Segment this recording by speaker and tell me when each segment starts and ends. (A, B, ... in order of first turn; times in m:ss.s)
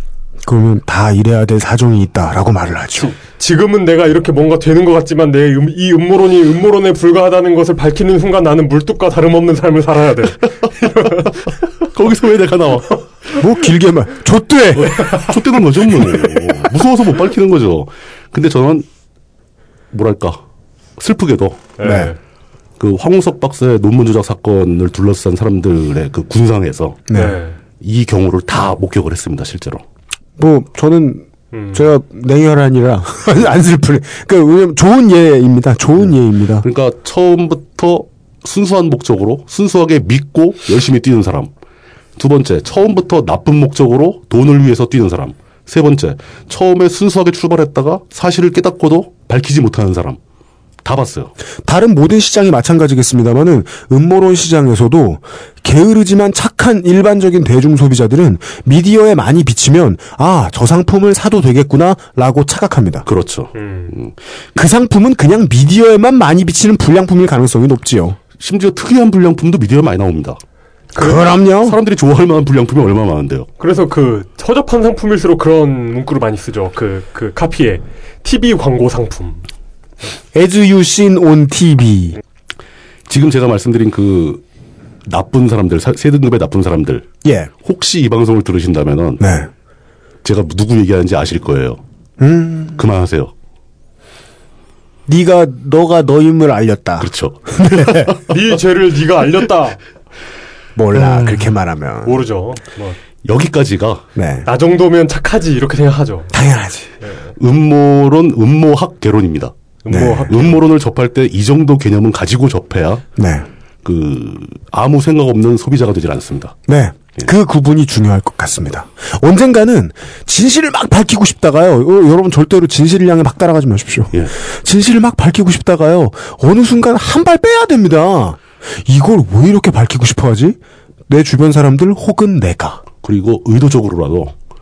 0:00.4-0:03.1 A
0:03.0-0:11.3 B
0:11.8-0:13.4 C
0:13.4-0:15.1 A
0:14.8-0:18.9 C
0:19.9-0:20.4 C
0:21.0-0:21.7 C
0:21.8-0:22.2 B
0:21.8-0:22.1 A
0:22.8-0:27.1 C
0:27.1-0:27.4 A
0:27.1-0:27.6 B
0:27.8-0:29.8 C
0:30.4-0:36.6 A
0:31.5-0:31.9 B
0:36.6-0:41.5 C
0:42.2-0:50.2 C
0:50.8-0:51.3 C
0:51.6-1:03.1 A
1:03.0-1:04.1 C
1:03.6-1:04.0 B
1:04.5-1:08.2 A
1:08.4-1:10.4 C
1:10.9-1:11.8 A
1:11.0-1:11.2 B
1:11.5-1:13.5 C
1:13.6-1:19.4 B
1:20.3-1:22.2 A
1:23.1-1:24.4 C
1:25.0-1:27.1 C
1:27.2-1:27.5 A
1:27.6-1:29.2 C
1:29.2-1:29.5 A
1:30.2-1:31.8 C
1:32.2-1:32.8 A
1:32.8-1:33.3 C
1:35.1-1:38.1 A
1:37.0-1:38.3 C
1:38.3-1:39.8 B
1:40.8-1:42.2 A
1:40.9-1:41.5 C
1:42.0-1:43.0 B
1:43.2-1:44.0 C
1:44.1-1:44.5 A
1:44.4-1:46.3 B
1:46.3-1:46.9 A
1:47.0-1:47.3 B
1:47.4-1:49.5 C
1:49.8-1:50.6 B
1:49.9-1:50.4 A
1:50.3-1:53.0 C
1:53.2-1:53.5 A
1:53.8-1:56.5 C
1:56.7-2:12.8 A
2:13.0-2:14.3 C